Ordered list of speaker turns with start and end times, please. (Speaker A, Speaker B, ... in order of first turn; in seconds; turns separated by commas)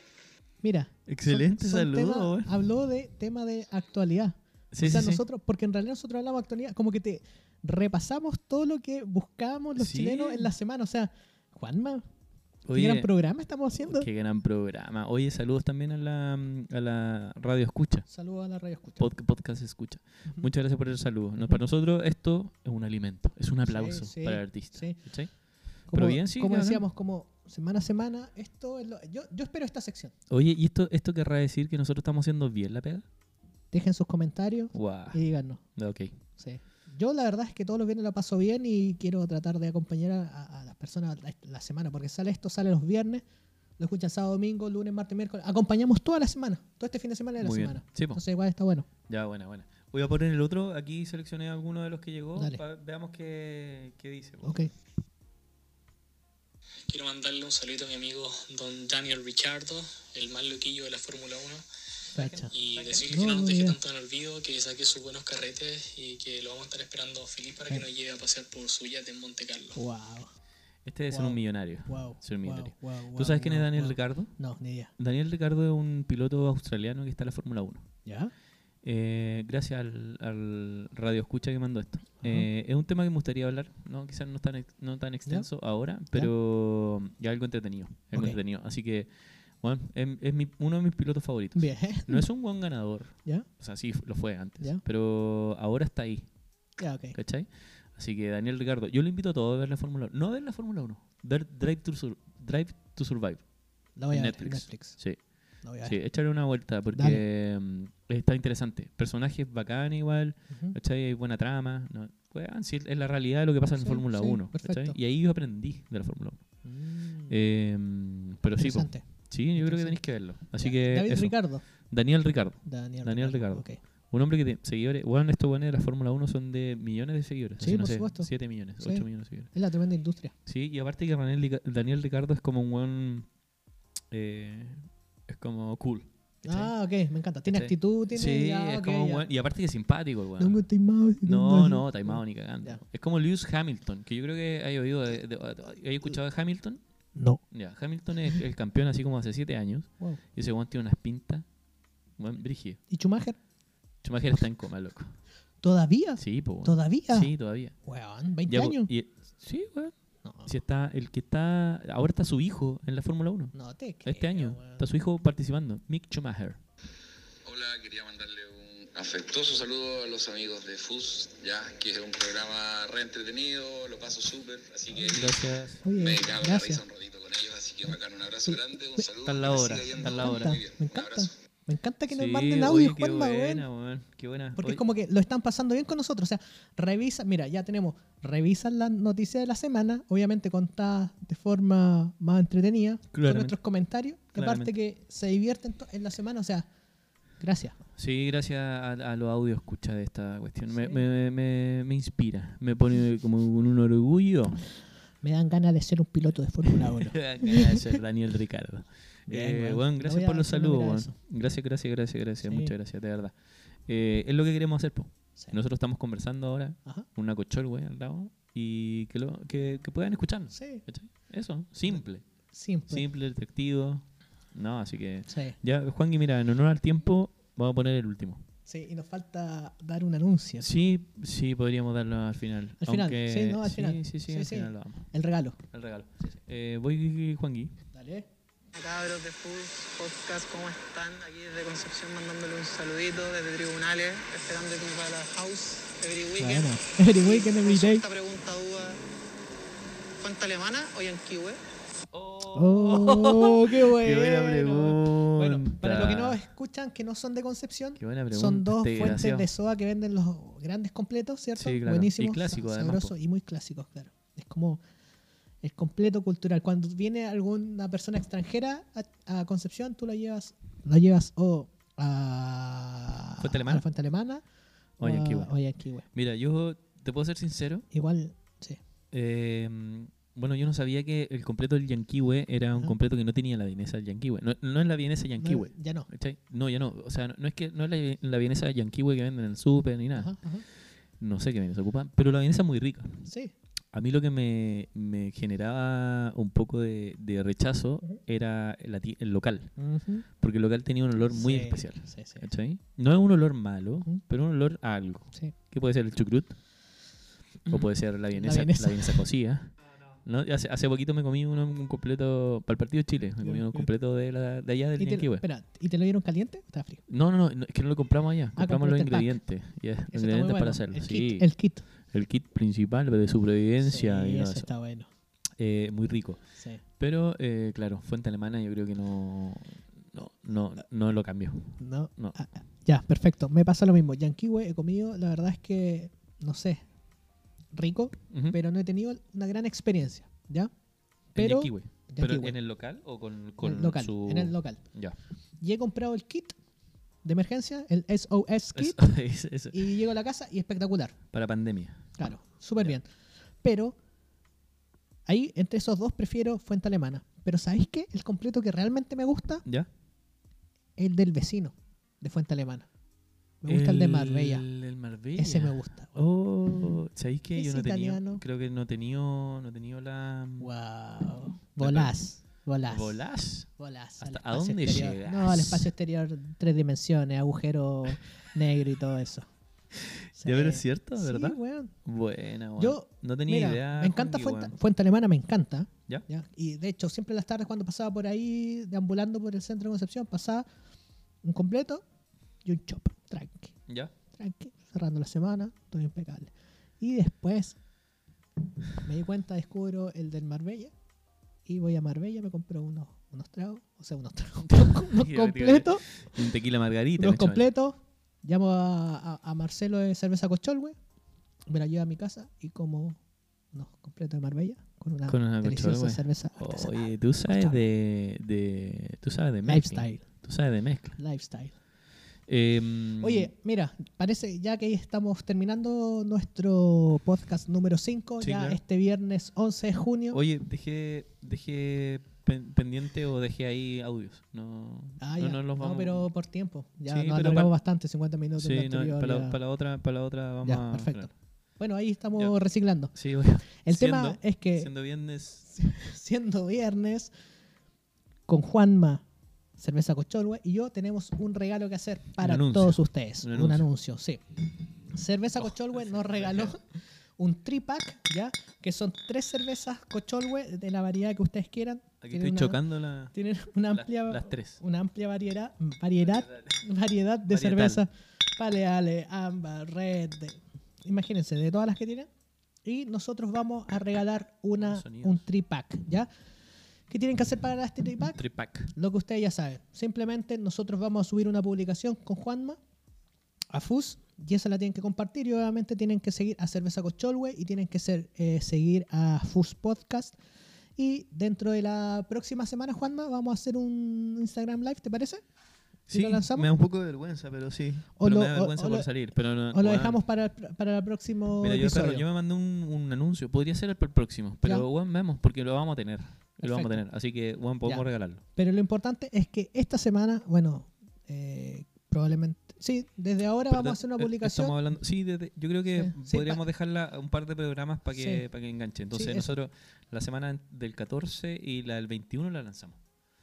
Speaker A: 0.6-12.1, Speaker B: 1.1-2.6, Speaker B: 4.7-5.2, Speaker B: 9.8-10.5, Speaker B: 12.7-13.1, Speaker A: 12.7-14.1, Speaker B: 13.8-18.1, Speaker A: 18.1-19.1, Speaker B: 19.0-25.3, Speaker A: 23.6-25.0, Speaker B: 25.9-26.8, Speaker A: 25.9-30.1, Speaker B: 30.3-33.1, Speaker A: 33.7-35.6, Speaker B: 34.7-35.2, Speaker B: 35.8-36.2, Speaker A: 36.4-43.2, Speaker A: 43.8-48.9, Speaker B: 47.4-48.2, Speaker B: 49.1-54.7, Speaker A: 52.4-52.6, Speaker A: 54.4-54.7, Speaker C: 56.9-61.7, Speaker B: 62.1-63.2, Speaker A: 62.1-62.5, Speaker C: 62.5-69.8, Speaker A: 63.0-63.8, Speaker A: 69.8-70.3, Speaker B: 70.8-74.3, Speaker A: 71.1-74.9, Speaker B: 75.0-77.9, Speaker A: 78.1-78.3, Speaker B: 78.8-89.1, Speaker A: 82.2-82.5, Speaker B: 89.6-96.3, Speaker A: 91.5-92.2, Speaker A: 96.8-97.2, Speaker B: 97.1-103.4, Speaker A: 104.0-105.0, Speaker B: 104.1-105.2, Speaker A: 105.6-106.0, Speaker B: 105.8-116.5, Speaker A: 106.9-107.2, Speaker A: 110.5-110.8, Speaker A: 113.8-115.0, Speaker A: 116.6-117.4, Speaker B: 117.3-129.5, Speaker A: 118.6-121.6, Speaker A: 122.7-123.8, Speaker A: 127.6-130.3, Speaker B: 130.5-133.3, Speaker B: 134.1-136.7, Speaker A: 136.4-139.3, Speaker B: 137.5-140.6, Speaker A: 140.4-142.8, Speaker B: 141.2-146.8, Speaker A: 147.2-147.4, Speaker B: 147.5-151.5, Speaker B: 152.2-152.8, Speaker A: 152.9-153.4, Speaker B: 154.0-155.2, Speaker A: 155.6-157.3, Speaker B: 156.2-157.8, Speaker A: 157.8-158.9, Speaker B: 158.5-159.9, Speaker A: 160.2-160.5, Speaker B: 160.5-163.5, Speaker A: 163.5-164.8, Speaker B: 164.0-166.6, Speaker D: 167.4-181.3, Speaker B: 175.1-175.8, Speaker A: 175.8-176.8, Speaker A: 178.5-179.1, Speaker B: 179.2-180.6, Speaker A: 180.0-183.7, Speaker B: 182.1-184.8, Speaker A: 184.6-196.7, Speaker B: 193.1-193.6, Speaker B: 194.3-194.7, Speaker A: 197.4-197.8, Speaker B: 198.0-204.7, Speaker A: 200.7-201.0, Speaker A: 205.2-207.8, Speaker B: 206.7-213.3, Speaker A: 209.3-211.2, Speaker A: 212.4-212.7, Speaker B: 213.9-222.2, Speaker A: 220.5-220.8, Speaker A: 222.5-223.0, Speaker B: 222.9-228.4, Speaker A: 225.3-225.6, Speaker A: 228.7-230.7, Speaker B: 230.6-235.1, Speaker A: 232.8-235.6, Speaker B: 235.7-237.8, Speaker A: 237.9-238.3, Speaker E: 238.7-249.0, Speaker A: 246.4-248.0, Speaker E: 250.2-251.6, Speaker B: 252.1-256.4, Speaker A: 252.5-264.8, Speaker B: 258.0-259.5, Speaker B: 261.6-263.1, Speaker A: 265.6-274.4, Speaker B: 273.4-273.9, Speaker B: 275.0-275.5, Speaker A: 275.0-276.1, Speaker B: 276.1-277.9, Speaker A: 277.9-278.8, Speaker B: 279.1-290.4, Speaker A: 285.4-286.1, Speaker A: 290.2-290.6, Speaker B: 291.2-293.3, Speaker A: 293.2-293.5, Speaker B: 293.9-299.7, Speaker A: 299.8-300.3, Speaker B: 300.3-306.6, Speaker A: 301.2-302.5, Speaker A: 307.6-309.3, Speaker B: 307.7-315.4, Speaker A: 313.4-313.9, Speaker A: 315.0-317.0, Speaker B: 317.1-321.5, Speaker A: 318.6-319.3, Speaker A: 320.1-321.8, Speaker B: 322.1-324.7, Speaker A: 323.8-325.1, Speaker B: 325.6-326.4, Speaker B: 327.0-332.4, Speaker A: 331.8-336.8, Speaker A: 337.7-340.7, Speaker B: 338.3-338.6, Speaker A: 341.3-342.6, Speaker B: 341.4-345.2, Speaker A: 343.6-344.8, Speaker A: 345.6-346.6, Speaker A: 347.2-349.0, Speaker B: 348.8-350.0, Speaker A: 349.7-351.1, Speaker B: 351.3-352.2, Speaker A: 352.2-353.1, Speaker A: 353.6-354.0, Speaker A: 355.3-359.6, Speaker A: 361.0-362.9, Speaker A: 363.6-364.6, Speaker B: 363.7-370.7, Speaker A: 365.4-366.2, Speaker A: 367.6-368.4, Speaker A: 370.6-379.5, Speaker B: 371.8-372.1, Speaker B: 372.8-375.9, Speaker B: 380.0-384.8, Speaker A: 380.4-381.9, Speaker A: 382.8-390.7, Speaker A: 391.4-392.0, Speaker A: 392.6-393.8, Speaker B: 393.9-394.1, Speaker A: 394.4-397.8, Speaker A: 399.0-400.9, Speaker A: 401.7-406.5, Speaker B: 404.7-407.7, Speaker A: 407.2-411.0, Speaker A: 411.7-413.2, Speaker A: 413.7-417.8, Speaker B: 415.3-421.2, Speaker A: 419.6-420.2, Speaker A: 421.2-421.8, Speaker B: 422.5-423.5, Speaker A: 423.2-430.4, Speaker B: 428.4-428.8, Speaker B: 430.3-436.3, Speaker A: 435.2-439.6, Speaker B: 437.1-437.7, Speaker B: 438.6-441.3, Speaker A: 440.6-443.1, Speaker B: 443.1-445.7, Speaker A: 443.8-444.9, Speaker A: 445.7-447.3, Speaker A: 448.5-449.2, Speaker A: 449.8-454.6, Speaker B: 452.4-453.9, Speaker A: 455.1-456.8, Speaker B: 455.6-456.8, Speaker A: 457.4-472.3, Speaker B: 462.2-463.3, Speaker B: 463.9-464.8, Speaker B: 466.2-466.8, Speaker B: 467.5-468.0, Speaker A: 472.9-476.3, Speaker B: 474.8-475.5, Speaker A: 477.1-482.8, Speaker B: 478.4-478.9, Speaker A: 483.7-490.4, Speaker A: 491.0-495.4, Speaker B: 496.1-500.2, Speaker A: 496.1-496.7, Speaker A: 498.2-499.1, Speaker A: 499.7-502.3, Speaker B: 501.6-508.4, Speaker A: 506.6-507.0, Speaker A: 507.9-514.8, Speaker B: 513.7-523.0, Speaker A: 515.9-516.6, Speaker A: 518.1-518.5, Speaker A: 519.1-519.5